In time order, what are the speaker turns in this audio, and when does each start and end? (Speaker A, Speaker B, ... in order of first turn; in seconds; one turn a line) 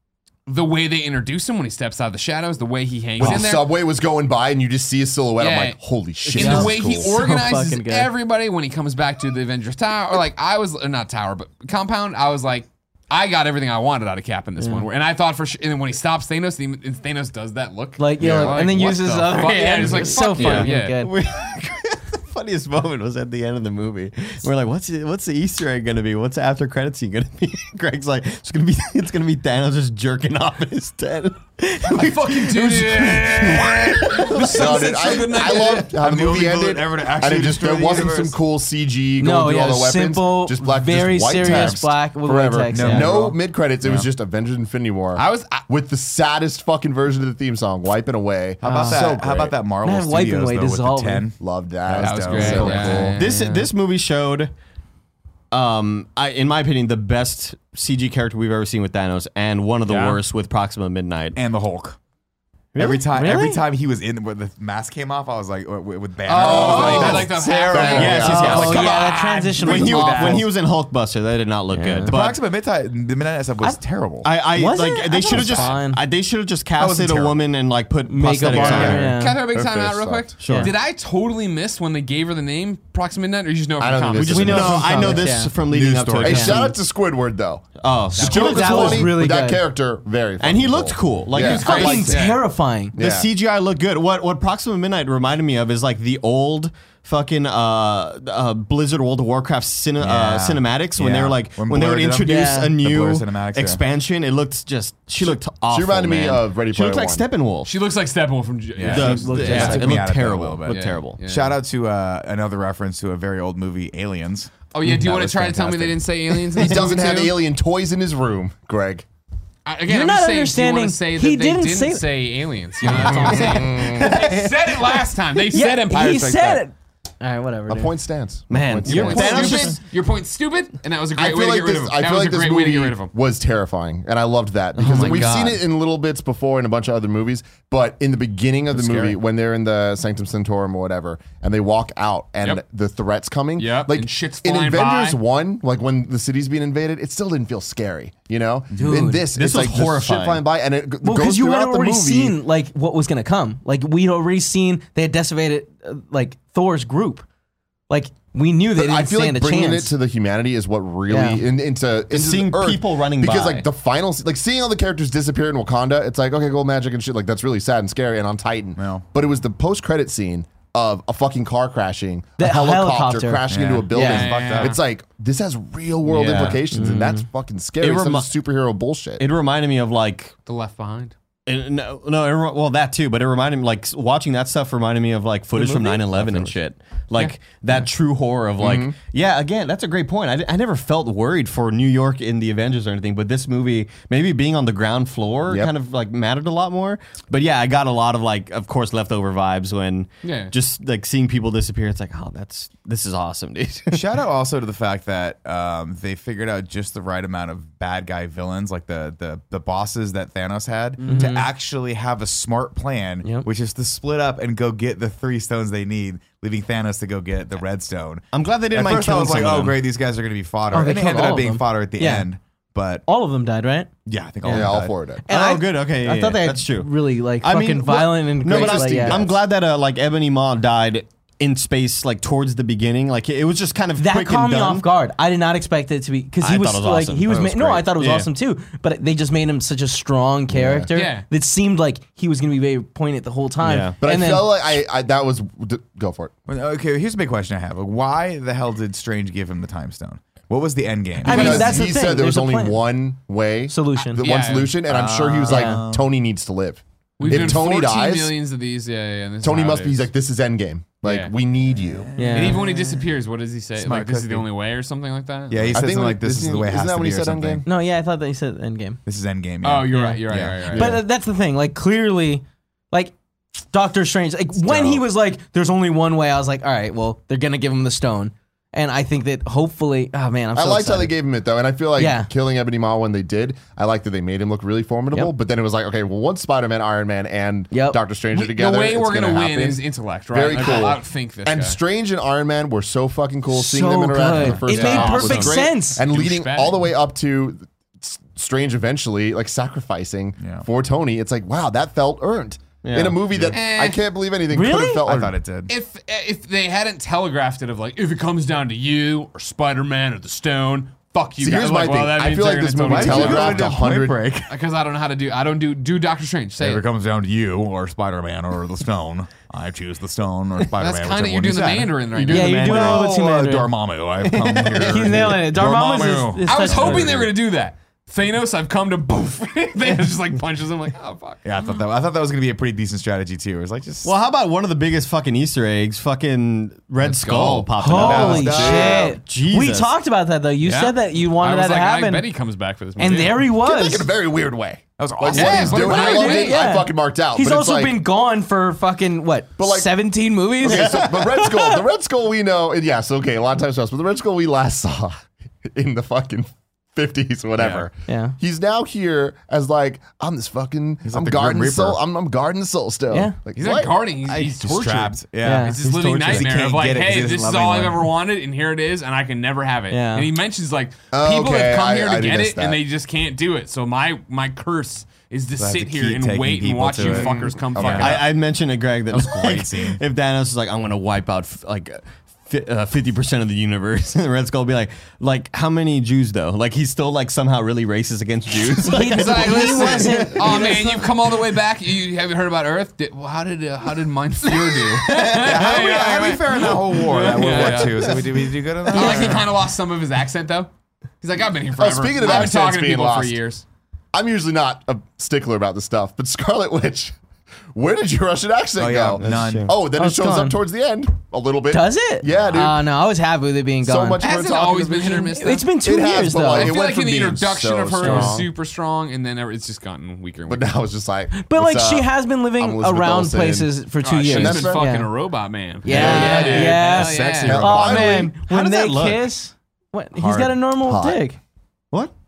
Speaker A: 0.5-3.7
Speaker B: 3.2-7.1
Speaker A: 5.4-5.8
Speaker A: 6.3-21.0
Speaker C: 6.3-8.1
Speaker C: 14.6-14.8
Speaker C: 18.0-21.1
Speaker B: 18.2-18.7
Speaker D: 20.2-34.7
Speaker A: 31.9-35.9
Speaker B: 34.3-49.5
Speaker E: 35.4-38.4
Speaker C: 39.2-43.3
Speaker E: 41.4-41.8
Speaker E: 42.7-43.3
Speaker A: 45.1-45.6
Speaker E: 48.6-53.2
Speaker C: 48.6-49.1
Speaker C: 49.8-51.2
Speaker B: 51.4-53.2
Speaker A: 52.0-53.7
Speaker D: 53.1-54.5
Speaker D: 55.5-61.4
Speaker E: 59.9-60.2
Speaker E: 61.3-62.0
Speaker D: 62.7-63.0
Speaker E: 62.8-69.1
Speaker C: 63.0-63.6
Speaker A: 66.2-70.5
Speaker B: 66.3-68.7
Speaker D: 66.4-67.3
Speaker D: 67.9-69.0
Speaker C: 68.2-70.5
Speaker D: 69.5-72.4
Speaker C: 71.7-72.1
Speaker E: 72.0-74.3
Speaker D: 74.2-79.2
Speaker C: 74.3-76.0
Speaker E: 76.8-77.4
Speaker C: 78.1-79.4
Speaker E: 78.5-79.0
Speaker A: 79.0-84.7
Speaker B: 79.5-80.3
Speaker D: 80.4-80.7
Speaker C: 80.4-80.7
Speaker B: 83.8-85.2
Speaker D: 84.2-86.8
Speaker C: 84.3-85.5
Speaker E: 85.6-86.7
Speaker B: 86.2-92.2
Speaker C: 86.3-86.6
Speaker D: 87.8-89.1
Speaker A: 88.1-88.6
Speaker C: 88.2-89.6
Speaker D: 90.4-92.1
Speaker A: 91.4-92.4
Speaker C: 91.5-93.0
Speaker B: 92.9-93.3
Speaker D: 93.0-107.7
Speaker E: 100.0-103.8
Speaker C: 102.2-102.8
Speaker B: 105.2-107.2
Speaker A: 107.7-109.9
Speaker E: 108.8-116.0
Speaker D: 108.8-111.2
Speaker C: 109.0-109.9
Speaker A: 110.7-111.6
Speaker A: 114.7-117.3
Speaker B: 116.5-119.0
Speaker A: 119.7-126.6
Speaker C: 119.9-122.1
Speaker C: 122.8-123.4
Speaker B: 123.0-124.2
Speaker D: 123.3-125.0
Speaker C: 125.5-128.0
Speaker B: 127.7-129.7
Speaker D: 128.5-129.8
Speaker C: 128.8-129.8
Speaker A: 129.1-133.1
Speaker B: 131.2-152.3
Speaker D: 134.8-135.5
Speaker C: 134.8-135.6
Speaker A: 135.0-135.3
Speaker E: 138.7-139.2
Speaker A: 143.6-145.2
Speaker E: 148.8-149.0
Speaker C: 148.8-149.3
Speaker D: 149.3-150.4
Speaker C: 151.0-157.2
Speaker C: 157.9-159.9
Speaker B: 158.8-179.2
Speaker C: 161.1-161.4
Speaker D: 162.1-163.7
Speaker E: 168.8-169.0
Speaker C: 172.4-174.3
Speaker E: 173.5-174.8
Speaker A: 173.9-174.8
Speaker D: 176.1-177.0
Speaker C: 176.7-177.2
Speaker D: 177.8-178.3
Speaker D: 179.2-180.3
Speaker A: 180.4-181.1
Speaker D: 181.4-204.0
Speaker C: 185.6-185.9
Speaker E: 186.2-186.5
Speaker B: 188.6-188.9
Speaker A: 200.2-200.5
Speaker E: 203.9-223.0
Speaker A: 211.0-211.3
Speaker C: 211.1-211.5
Speaker D: 218.3-219.8
Speaker C: 220.7-222.3
Speaker C: 223.0-223.9
Speaker E: 224.1-224.9
Speaker C: 224.4-224.7
Speaker B: 224.5-225.2
Speaker C: 225.2-229.2
Speaker D: 225.3-234.9
Speaker B: 228.4-229.4
Speaker C: 234.0-244.5
Speaker D: 236.4-238.3
Speaker B: 240.5-240.9
Speaker A: 240.9-241.2
Speaker D: 243.6-244.0
Speaker B: 244.0-246.3
Speaker E: 246.5-251.8
Speaker C: 251.2-252.8
Speaker B: 251.2-258.3
Speaker A: 251.3-251.7
Speaker C: 253.7-254.2
Speaker A: 254.2-254.8
Speaker E: 254.9-256.1
Speaker C: 255.4-255.8
Speaker A: 257.2-260.0
Speaker E: 257.2-257.6
Speaker B: 259.4-262.1
Speaker A: 261.0-261.3
Speaker E: 261.7-263.1
Speaker C: 262.2-262.6
Speaker A: 262.3-265.8
Speaker E: 263.8-264.5
Speaker E: 265.5-267.6
Speaker B: 265.7-267.6
Speaker C: 267.6-269.0
Speaker E: 269.1-270.8
Speaker A: 269.6-271.0
Speaker C: 269.9-270.2
Speaker B: 270.7-271.0
Speaker C: 270.7-273.1
Speaker C: 273.7-281.1
Speaker B: 274.7-275.0
Speaker B: 280.5-305.4
Speaker C: 281.9-282.3
Speaker C: 287.7-288.0
Speaker A: 288.3-291.8
Speaker C: 293.5-296.0
Speaker A: 294.7-296.9
Speaker E: 300.4-300.6
Speaker D: 302.8-303.2
Speaker E: 303.3-303.6
Speaker A: 303.5-304.0
Speaker C: 304.5-305.0
Speaker E: 305.0-305.7
Speaker A: 305.7-313.8
Speaker B: 311.4-314.2
Speaker E: 312.9-314.5
Speaker A: 314.5-316.8
Speaker E: 316.6-322.0
Speaker A: 320.8-322.7
Speaker D: 322.1-323.1
Speaker C: 322.3-323.7
Speaker E: 322.6-327.3
Speaker D: 324.2-325.4
Speaker C: 324.8-327.2
Speaker A: 326.4-331.4
Speaker E: 331.4-334.1
Speaker D: 334.0-339.9
Speaker E: 337.0-339.1
Speaker A: 337.1-337.6
Speaker C: 337.8-342.3
Speaker B: 338.3-339.1
Speaker A: 340.6-343.4
Speaker C: 343.0-344.1
Speaker B: 343.4-348.0
Speaker E: 345.0-346.1
Speaker A: 345.3-346.6
Speaker C: 345.8-351.8
Speaker B: 349.6-349.9
Speaker B: 350.6-363.9
Speaker D: 350.6-351.1
Speaker E: 357.6-357.9
Speaker C: 358.1-358.4
Speaker E: 361.0-362.0
Speaker A: 363.6-378.3
Speaker D: 364.3-364.6
Speaker E: 364.5-368.1
Speaker C: 365.4-365.8
Speaker D: 366.0-366.5
Speaker C: 369.9-370.3
Speaker B: 371.1-372.8
Speaker E: 375.6-378.3
Speaker B: 377.0-378.2
Speaker D: 377.9-390.7
Speaker E: 379.1-380.0
Speaker C: 388.8-391.1
Speaker A: 388.9-398.2
Speaker D: 394.7-395.9
Speaker E: 395.4-399.5
Speaker D: 397.2-398.3
Speaker A: 398.9-400.7
Speaker D: 398.9-399.3
Speaker A: 401.2-403.6
Speaker B: 401.8-403.4
Speaker B: 404.1-407.1
Speaker B: 407.7-412.8
Speaker E: 408.8-409.7
Speaker D: 409.2-409.7
Speaker C: 409.9-410.6
Speaker C: 411.7-414.2
Speaker B: 413.8-418.5
Speaker A: 414.2-415.7
Speaker C: 415.3-416.8
Speaker A: 416.5-420.7
Speaker C: 418.0-418.4
Speaker B: 420.5-423.7
Speaker C: 421.3-425.1
Speaker A: 424.0-427.6
Speaker B: 424.2-424.9
Speaker C: 425.8-431.4
Speaker B: 425.8-426.8
Speaker E: 425.9-428.1
Speaker B: 427.4-428.3
Speaker D: 428.0-429.3
Speaker B: 430.2-431.2